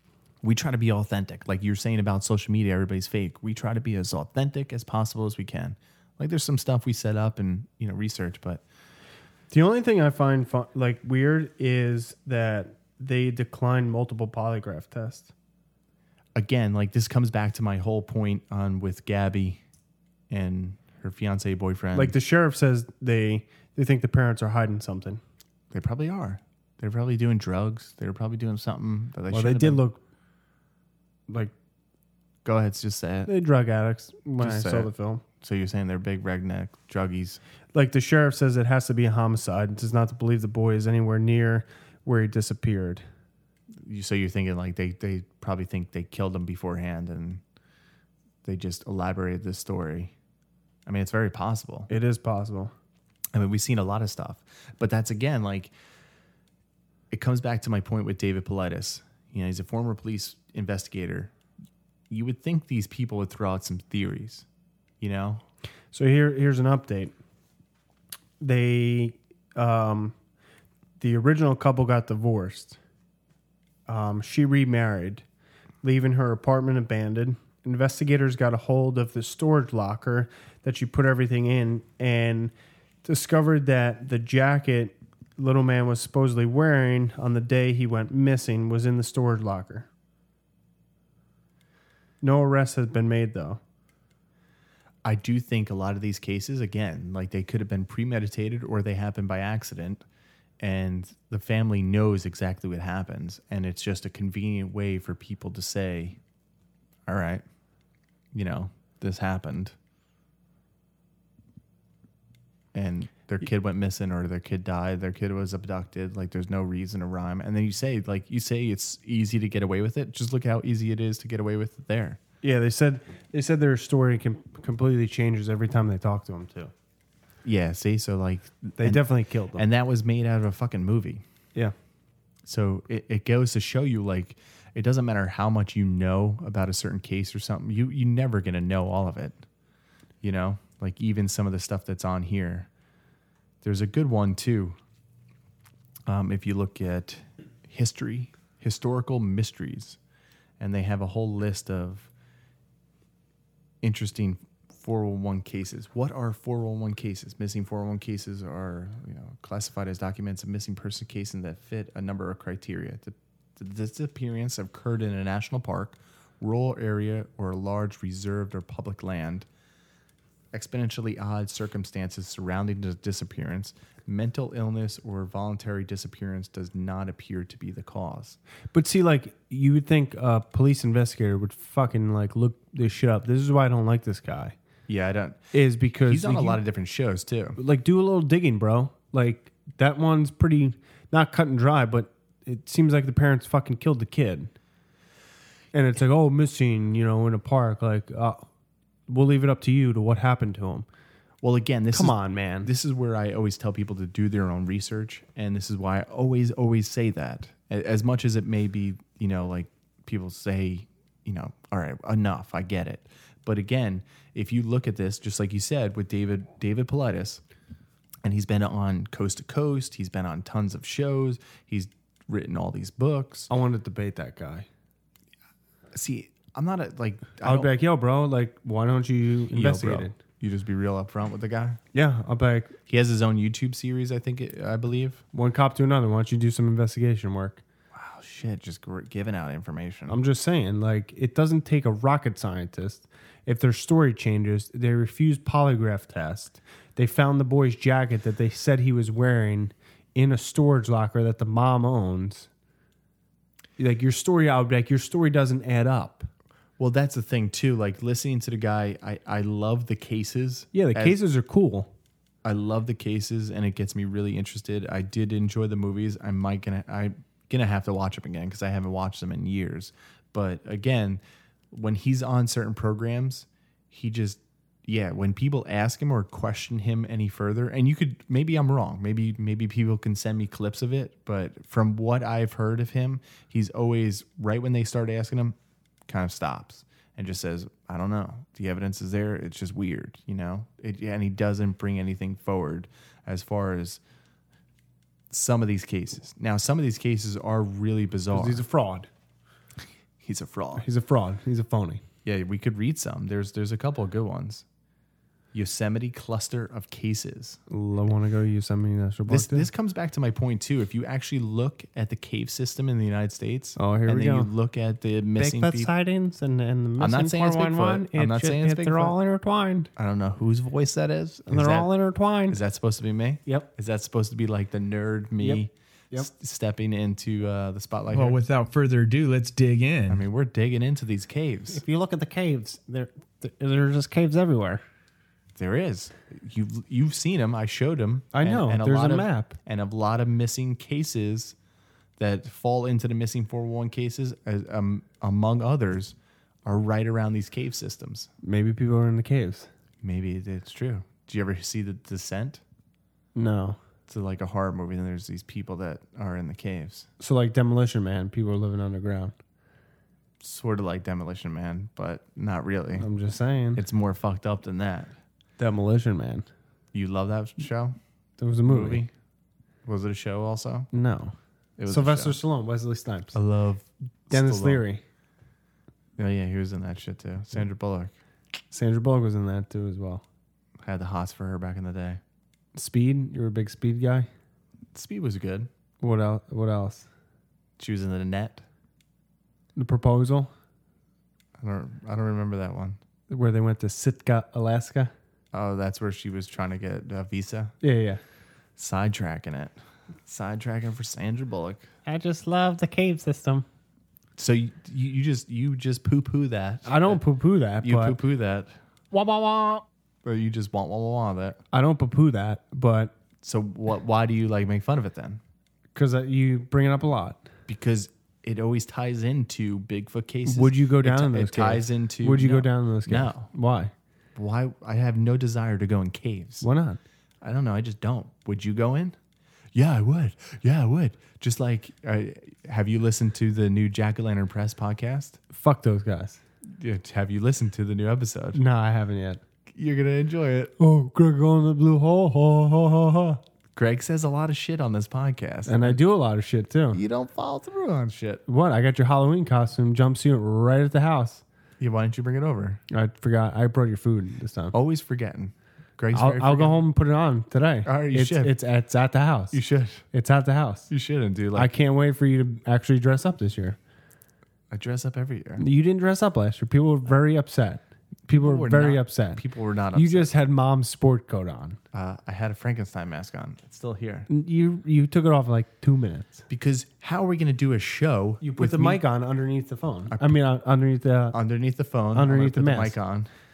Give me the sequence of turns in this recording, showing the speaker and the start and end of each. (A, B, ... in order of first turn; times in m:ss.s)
0:00.4-0:08.6 A
0:09.5-0:15.3 B
0:16.4-0:19.6 A
0:20.3-0:22.2 A
0:21.9-0:25.2 B
0:25.7-0:29.8 A
0:29.3-0:30.0 B
0:32.4-0:33.3 A
0:33.3-0:35.2 B
0:34.4-0:37.4 A
0:37.7-0:43.0 B
0:43.8-0:47.4 A
0:48.4-0:50.1 A
0:50.9-0:51.9 A
0:51.9-0:52.7 B
0:53.4-0:55.7 A
0:57.1-1:01.3 A
1:02.1-1:04.5 A
1:05.0-1:05.4 A
1:05.9-1:07.1 B
1:08.4-1:10.2 B
1:11.0-1:12.8 B
1:13.9-1:15.2 B
1:15.8-1:22.5 B
1:23.0-1:29.9 B
1:32.2-1:33.6 B
1:35.0-1:40.0 A
1:40.6-1:46.2 A
1:47.1-1:47.4 A
1:48.3-1:49.7 A
1:52.7-2:02.2 A
2:02.4-2:06.7 B
2:07.4-2:11.2 A
2:08.8-2:09.6 B
2:12.5-2:19.4 A
2:20.2-2:22.7 A
2:23.6-2:24.8 A
2:26.1-2:30.0 A
2:30.6-2:32.1 A
2:33.8-2:49.5 A
2:50.5-2:58.4 A
2:58.7-3:04.6 B
3:04.9-3:05.4 A
3:05.5-3:06.6 B
3:06.0-3:07.6 A
3:07.6-3:14.5 B
3:15.7-3:18.5 B
3:19.1-3:20.9 B
3:21.4-3:37.4 A
3:21.9-3:22.7 B
3:38.2-3:43.5 A
3:43.5-3:44.7 B
3:45.9-3:47.7 A
3:47.4-3:50.2 B
3:49.5-3:51.8 A
3:51.9-3:52.8 B
3:52.9-3:55.2 A
3:55.3-3:57.6 B
3:57.9-4:00.2 A
4:00.1-4:12.5 B
4:13.8-4:16.3 B
4:16.8-4:21.2 A
4:20.7-4:21.9 B
4:22.4-4:31.2 A
4:31.7-4:45.6 A
4:46.1-4:54.0 A
4:55.3-4:58.6 A
4:58.3-4:59.1 B
5:00.2-5:00.8 A
5:00.8-5:02.0 B
5:02.2-5:04.6 A
5:05.5-5:07.6 A
5:07.7-5:09.7 B
5:09.3-5:15.9 A
5:13.8-5:14.5 B
5:15.4-5:19.9 B
5:17.0-5:19.2 A
5:20.0-5:21.9 A
5:21.5-5:22.6 B
5:22.5-5:28.4 A
5:25.4-5:26.3 B
5:28.1-5:30.2 C
5:30.1-5:31.8 A
5:31.7-5:34.8 B
5:35.6-5:41.6 A
5:38.3-5:39.6 B
5:42.2-5:48.3 A
5:48.4-5:49.7 B
5:50.0-5:52.6 A
5:53.4-5:53.8 B
5:54.1-5:57.1 A
5:57.2-5:59.4 B
6:00.4-6:03.1 A
6:03.0-6:03.8 B
6:03.8-6:05.1 A
6:05.6-6:06.5 B
6:06.9-6:08.0 A
6:08.4-6:09.0 B
6:08.7-6:09.1 A
6:09.9-6:10.9 A
6:10.9-6:11.4 B
6:11.8-6:12.4 A
6:11.9-6:13.4 B
6:13.3-6:14.8 A
6:14.3-6:15.0 B
6:16.2-6:18.1 A
6:18.7-6:20.2 B
6:20.8-6:22.2 A
6:22.8-6:24.3 B
6:24.9-6:25.7 A
6:26.0-6:27.1 B
6:27.8-6:28.6 A
6:29.8-6:30.5 B
6:31.6-6:33.0 A
6:33.3-6:35.1 B
6:35.5-6:37.7 A
6:37.8-6:38.2 B
6:38.8-6:39.7 A
6:40.2-6:41.9 A
6:42.1-6:43.7 B
6:44.4-6:47.2 A
6:46.8-6:48.2 B
6:47.8-6:48.8 A
6:49.1-6:49.8 B
6:50.2-6:51.6 A
6:51.7-6:53.1 B
6:53.4-6:55.4 A
6:55.9-6:57.5 B
6:57.7-7:03.5 A
7:00.5-7:03.9 B
7:04.4-7:06.7 A
7:06.6-7:07.0 B
7:07.4-7:09.2 A
7:09.8-7:15.4 A
7:15.5-7:16.4 B
7:16.8-7:18.6 A
7:18.5-7:19.4 B
7:19.7-7:20.8 A
7:20.8-7:23.4 B
7:23.8-7:26.0 A
7:25.7-7:27.0 B
7:26.9-7:28.4 A
7:28.5-7:31.4 B
7:31.8-7:32.8 A
7:32.9-7:34.7 B
7:34.7-7:36.8 A
7:36.1-7:39.6 B
7:37.8-7:38.6 A
7:39.5-7:40.0 A
7:40.1-7:40.9 B
7:40.9-7:41.7 A
7:41.6-7:43.8 B
7:44.7-7:45.6 A
7:45.6-7:49.4 B
7:48.3-7:50.3 A
7:50.0-7:51.8 B
7:51.9-7:54.3 A
7:54.3-7:56.4 B
7:56.5-7:59.0 A
7:58.4-8:01.4 B
8:00.1-8:00.4 A
8:01.3-8:03.3 A
8:02.1-8:03.0 B